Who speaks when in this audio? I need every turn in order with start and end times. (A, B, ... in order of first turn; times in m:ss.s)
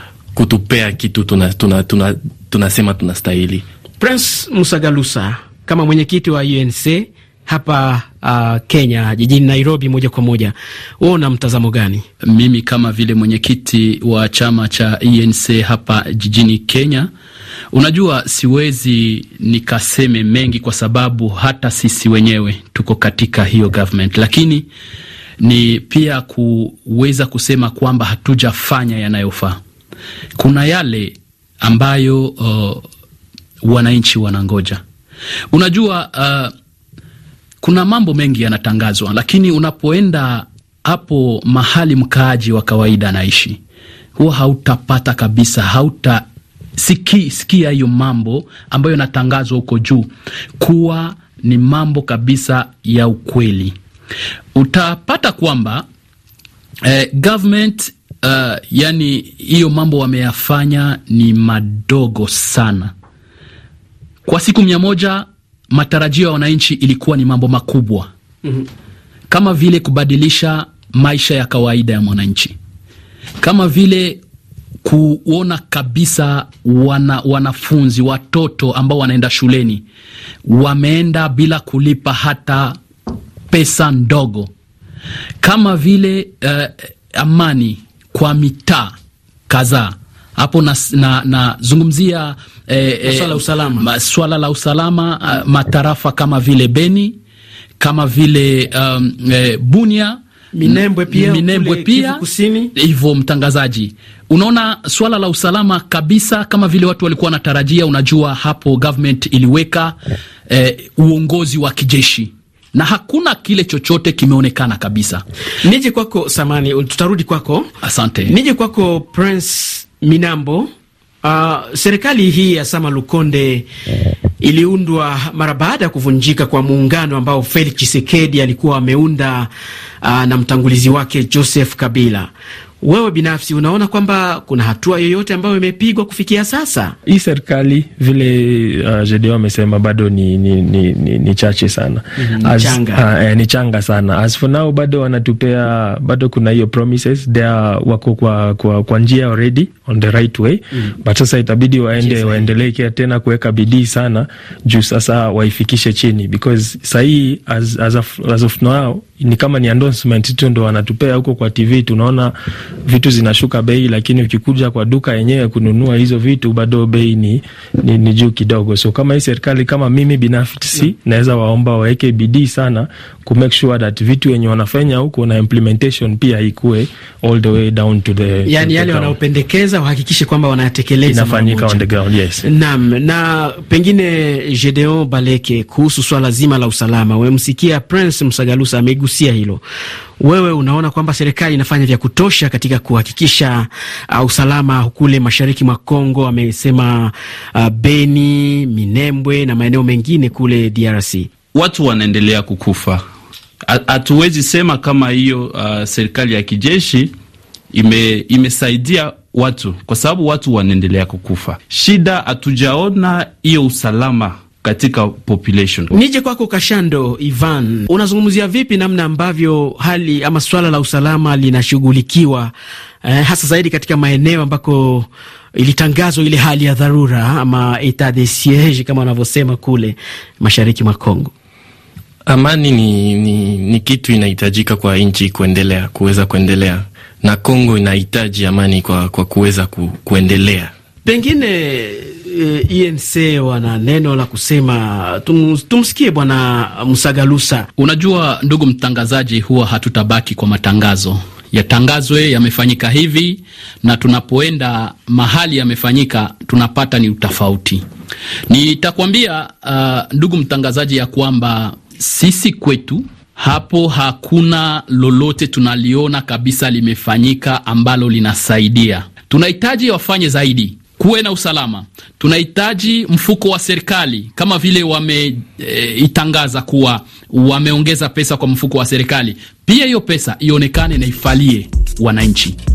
0:00.3-0:03.6 A
0:04.0-0:12.0 B
0:12.2-0:17.1 C
0:17.7-0:24.7 C
0:25.4-0:29.6 C
0:30.4-0:32.8 C
0:33.6-0:34.8 C
0:35.5-0:36.5 C
0:37.6-0:43.6 C
0:44.2-0:46.2 C
0:46.8-0:53.7 C
0:54.5-0:55.8 C
0:56.8-1:02.9 C
1:04.2-1:08.1 C
1:09.3-1:12.5 C
1:13.4-1:14.2 C
1:14.8-1:19.8 C
1:20.4-1:22.8 C
1:23.5-1:24.5 C
1:25.4-1:28.9 C
1:29.5-1:37.2 C
1:33.0-1:33.9 B
1:37.8-1:42.2 C
1:40.5-1:42.7 B
1:42.7-1:50.0 C
1:50.5-1:55.2 C
1:55.6-1:57.7 B
1:57.8-1:58.3 C
1:58.3-2:00.7 B
2:01.2-2:03.7 B
2:04.4-2:09.5 B
2:10.0-2:12.3 B
2:12.8-2:16.9 B
2:17.0-2:42.3 D
2:22.2-2:23.0 B
2:32.0-2:32.5 B
2:42.8-2:59.2 D
2:58.4-3:01.8 B
3:01.1-3:02.4 D
3:02.4-3:09.6 B
3:10.2-3:21.3 B
3:21.5-3:23.0 E
3:23.7-3:27.1 E
3:27.7-3:35.9 E
3:35.9-3:42.5 B
3:43.0-3:51.3 B
3:52.3-4:00.7 A
4:01.0-4:07.7 B
4:07.8-4:17.8 C
4:18.5-4:42.6 C